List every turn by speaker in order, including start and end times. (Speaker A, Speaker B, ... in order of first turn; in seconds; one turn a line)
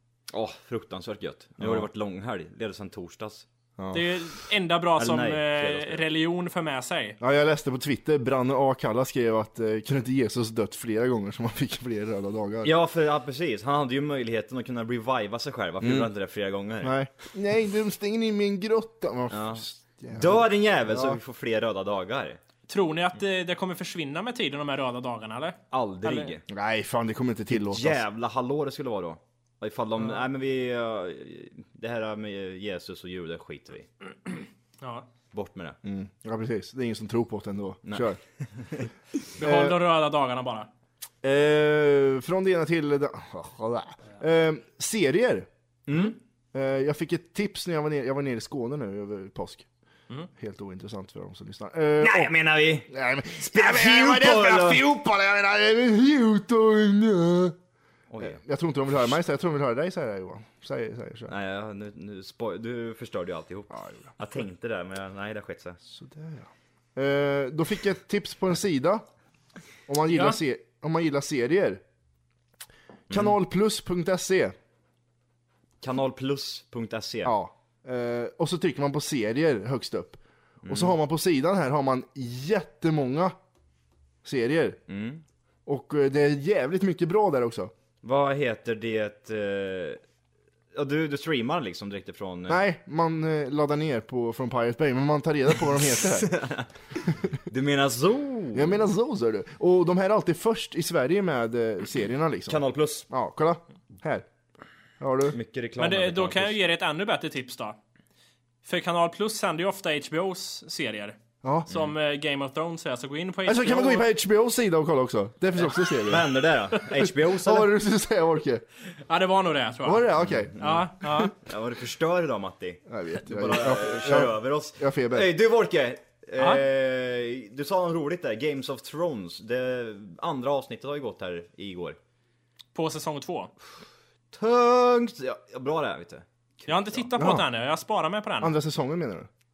Speaker A: 0.3-3.5
Speaker B: 1.6-1.9
Speaker B: 3.8-4.0
Speaker C: 3.9-7.2
Speaker A: 5.0-6.0
Speaker B: 7.2-12.7
Speaker A: 12.6-16.9
Speaker B: 15.8-16.1
Speaker B: 16.8-21.2
Speaker A: 19.3-22.4
Speaker C: 22.7-26.3
Speaker A: 25.7-26.4
Speaker B: 26.5-28.0
Speaker A: 27.5-33.9
Speaker C: 34.8-35.1
Speaker A: 35.3-35.8
Speaker B: 35.8-38.2
Speaker A: 37.8-38.9
Speaker C: 39.4-40.7
Speaker B: 39.4-39.8
Speaker B: 41.2-45.5
Speaker A: 45.9-46.2
Speaker B: 46.5-49.7
Speaker B: 50.4-52.3
Speaker A: 52.0-54.8
Speaker B: 52.9-57.5
Speaker A: 58.1-58.4
Speaker B: 58.2-61.3
Speaker A: 61.3-65.8
Speaker B: 63.7-64.1
Speaker B: 65.9-69.0
Speaker B: 69.9-71.8
Speaker C: 70.1-70.4
Speaker B: 73.1-74.5
Speaker A: 75.8-77.3
Speaker B: 77.2-83.3
Speaker A: 80.6-81.0
Speaker B: 84.2-84.8
Speaker A: 84.9-85.2
Speaker B: 85.7-87.7
Speaker A: 88.0-90.0
Speaker A: 90.7-92.6
Speaker B: 92.5-96.3
Speaker A: 96.2-96.7
Speaker A: 97.5-98.8
Speaker B: 98.5-104.2
Speaker A: 102.5-103.1
Speaker B: 105.0-105.4
Speaker A: 105.3-106.6
Speaker C: 105.8-107.8
Speaker C: 108.6-111.2
Speaker B: 111.4-111.7
Speaker C: 111.7-114.1
Speaker B: 113.5-116.3
Speaker A: 115.6-117.7
Speaker B: 117.2-118.6
Speaker C: 119.0-121.3
Speaker B: 119.8-121.3
Speaker A: 120.2-132.0
Speaker B: 122.9-125.3
Speaker C: 126.4-126.6
Speaker C: 132.7-133.5
Speaker A: 134.3-137.1
Speaker C: 136.7-138.5
Speaker B: 137.2-137.4
Speaker B: 138.4-139.3